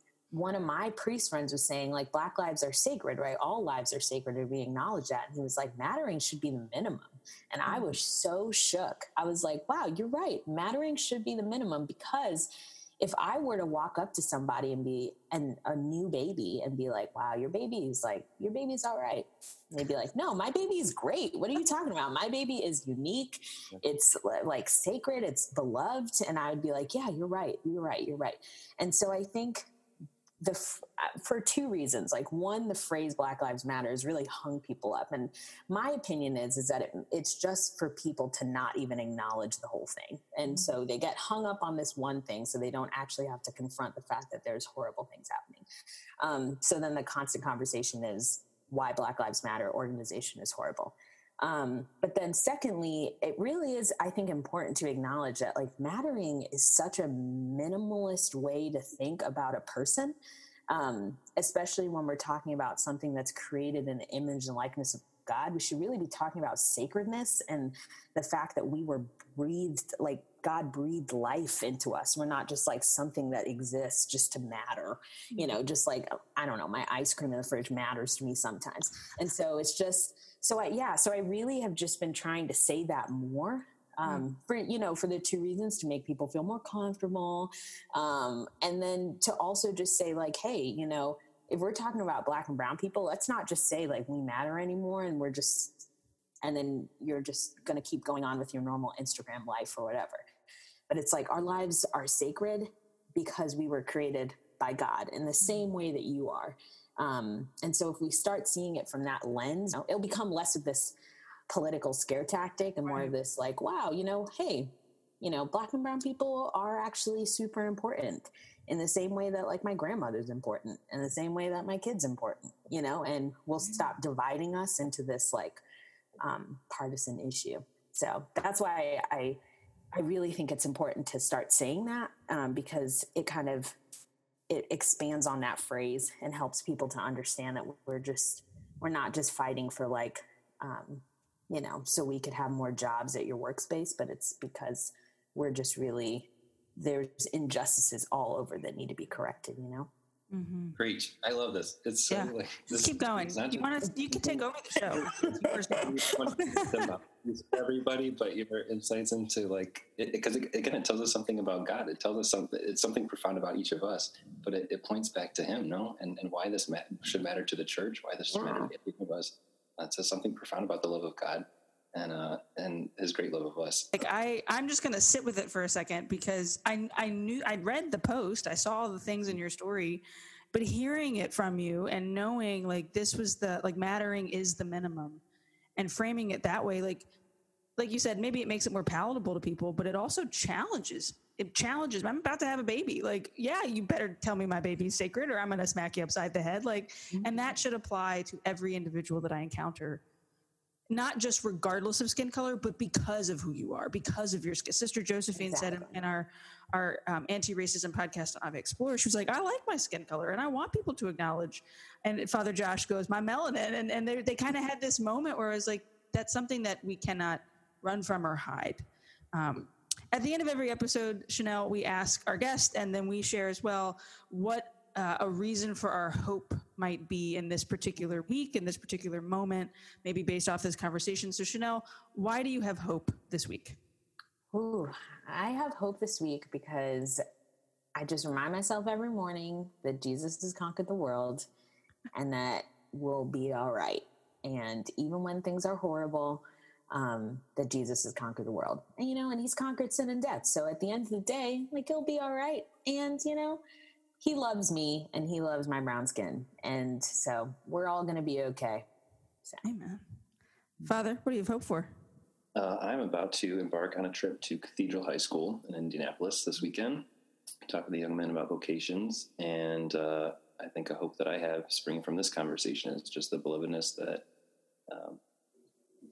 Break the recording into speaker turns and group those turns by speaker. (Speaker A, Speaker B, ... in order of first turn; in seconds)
Speaker A: 0.3-12.5, 13.0-29.6, 30.4-45.7, 46.2-60.2, 60.7-95.9, 96.4-100.2, 100.9-111.0, 111.5-125.6, 126.2-129.4, 129.9-133.8, 134.5-149.9, 154.2-154.4, 168.3-168.7, 197.1-197.6, 205.3-206.0, 234.5-237.2, 238.0-241.5, 242.1-253.6, 254.2-258.9
Speaker B: 7.7-8.0, 40.5-40.7, 112.9-113.1, 150.3-150.8, 152.1-156.7, 173.9-180.0, 180.5-185.2, 185.8-187.1, 187.8-200.0, 200.9-233.8, 259.6-260.0, 260.8-261.9
Speaker C: 150.8-153.8, 155.1-173.9, 262.5-267.1, 267.7-274.2, 274.9-275.2